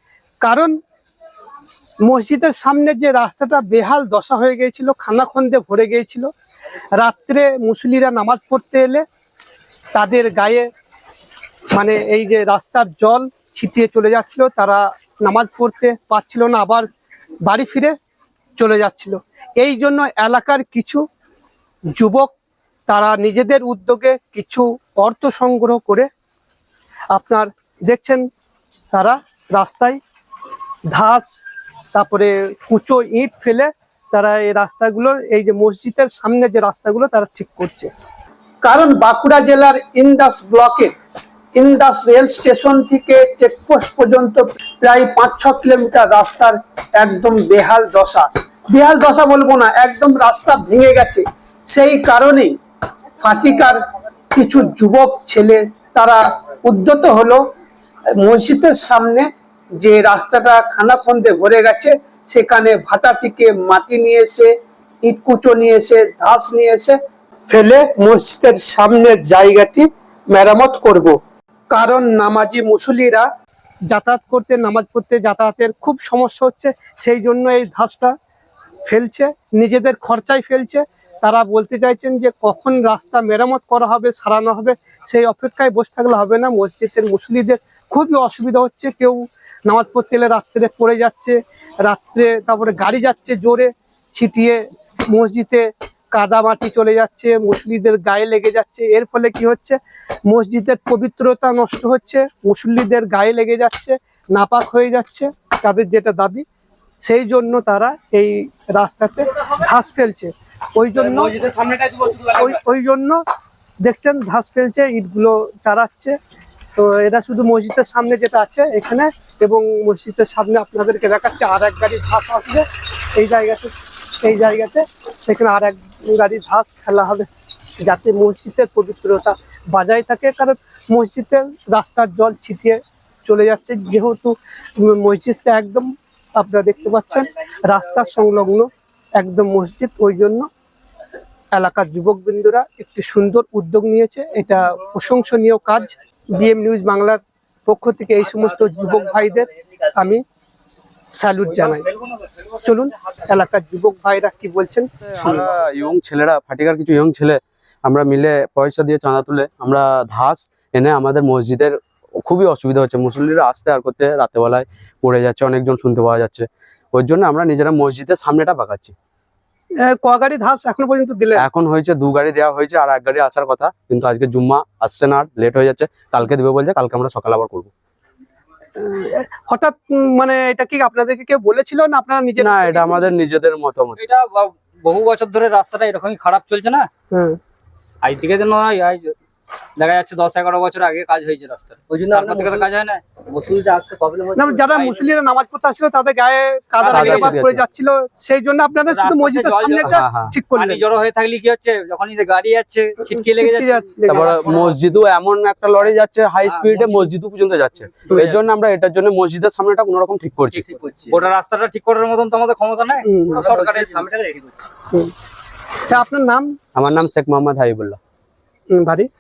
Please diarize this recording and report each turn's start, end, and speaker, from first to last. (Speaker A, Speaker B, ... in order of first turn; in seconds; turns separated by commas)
Speaker A: 0.4-0.8, Speaker A: 2.0-6.3, Speaker A: 7.0-9.0, Speaker A: 9.9-10.7, Speaker A: 11.7-16.9, Speaker A: 17.4-18.0, Speaker A: 18.6-21.0, Speaker A: 21.9-22.3, Speaker A: 22.9-26.1, Speaker A: 27.1-28.3, Speaker A: 28.9-30.0, Speaker A: 30.9-31.4, Speaker A: 31.9-37.9, Speaker A: 38.6-40.9, Speaker A: 41.5-52.6, Speaker A: 53.2-53.8, Speaker A: 54.3-57.4, Speaker A: 58.1-71.2, Speaker A: 71.7-73.3, Speaker A: 73.9-78.2, Speaker A: 78.9-106.5, Speaker A: 107.0-111.5, Speaker A: 112.1-113.2, Speaker A: 113.8-116.2, Speaker A: 116.8-127.3, Speaker A: 127.8-140.5, Speaker A: 141.5-150.2, Speaker A: 151.2-151.9, Speaker A: 152.6-155.5, Speaker B: 155.2-168.9, Speaker A: 169.8-171.5, Speaker B: 171.4-177.7, Speaker A: 178.8-183.1, Speaker B: 182.4-184.0, Speaker C: 184.0-186.9, Speaker A: 187.1-187.4, Speaker C: 188.0-189.2, Speaker C: 189.8-193.1, Speaker D: 191.9-192.7, Speaker D: 193.2-194.7, Speaker A: 194.4-200.8, Speaker C: 194.7-195.1, Speaker C: 196.8-197.4, Speaker B: 196.9-197.6, Speaker C: 198.9-200.0, Speaker B: 199.9-200.4, Speaker C: 200.6-204.8, Speaker A: 203.0-204.6, Speaker B: 204.1-210.7, Speaker C: 206.4-207.1, Speaker C: 208.1-208.4, Speaker C: 210.5-214.4, Speaker D: 210.8-211.2, Speaker A: 213.0-213.5, Speaker D: 213.3-214.5, Speaker A: 215.8-216.6, Speaker B: 216.8-218.0, Speaker A: 218.7-219.1